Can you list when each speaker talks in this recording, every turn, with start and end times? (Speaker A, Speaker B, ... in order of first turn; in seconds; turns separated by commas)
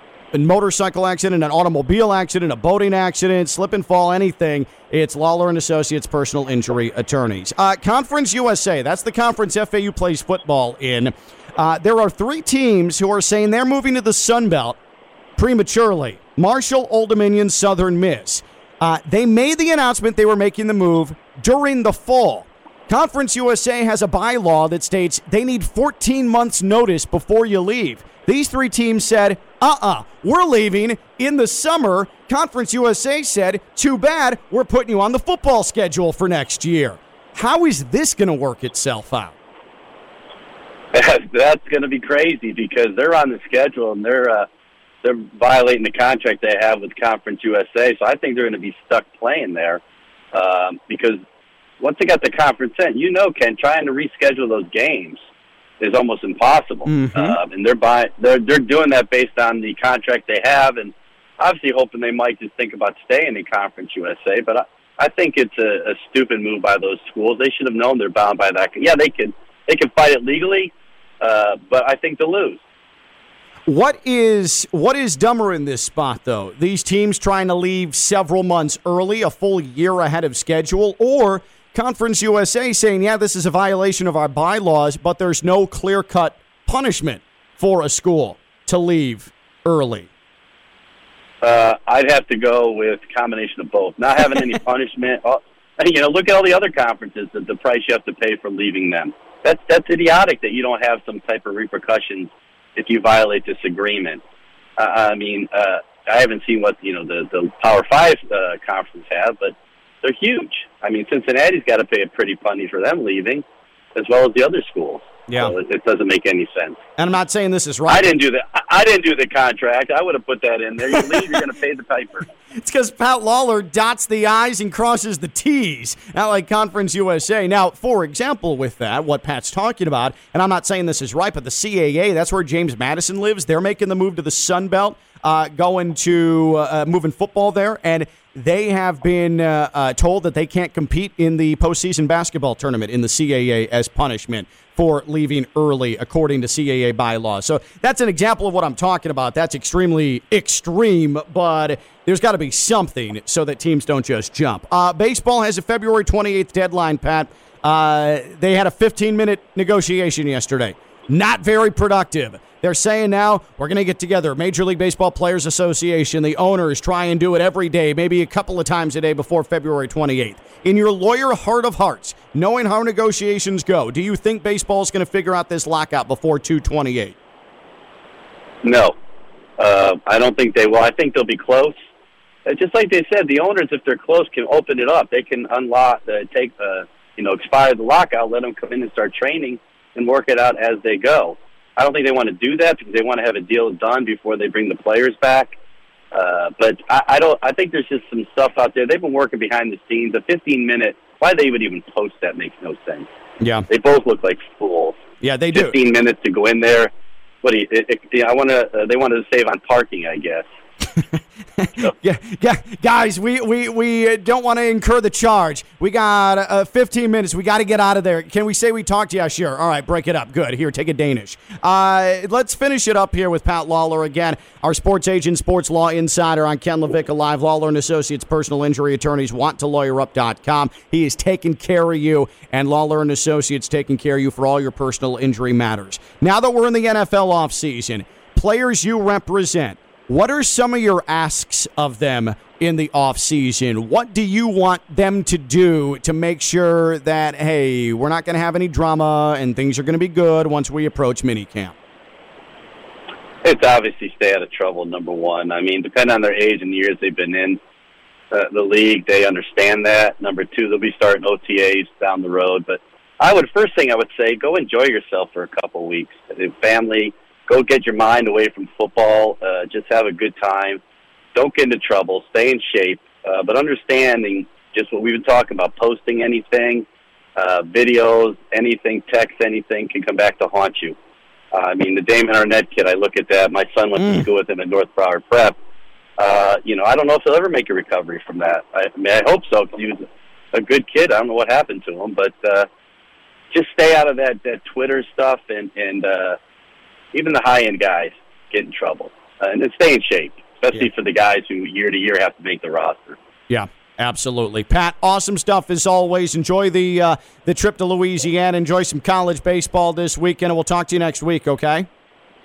Speaker A: 0.3-14.8, Speaker A: 15.4-39.3, Speaker B: 40.9-44.5, Speaker B: 45.0-49.8, Speaker B: 50.3-51.2, Speaker B: 51.8-55.2, Speaker B: 55.8-72.6, Speaker A: 56.9-57.4, Speaker A: 73.7-90.1, Speaker B: 91.4-104.2, Speaker B: 104.8-113.4, Speaker B: 113.9-116.8, Speaker A: 115.3-115.5, Speaker A: 117.0-118.1, Speaker B: 117.9-122.3, Speaker A: 122.5-177.2, Speaker B: 178.6-178.9, Speaker B: 179.6-181.8, Speaker B: 182.4-195.5, Speaker B: 196.1-203.1, Speaker A: 203.4-203.7, Speaker B: 203.7-205.0, Speaker A: 205.2-205.8, Speaker B: 205.5-206.9, Speaker B: 207.4-210.4, Speaker A: 210.9-251.7, Speaker B: 253.4-257.6, Speaker B: 258.3-270.8, Speaker B: 271.3-276.8, Speaker B: 277.4-280.9, Speaker B: 281.5-285.6, Speaker B: 286.2-292.7, Speaker B: 293.5-296.4, Speaker B: 297.1-303.2, Speaker A: 303.5-311.9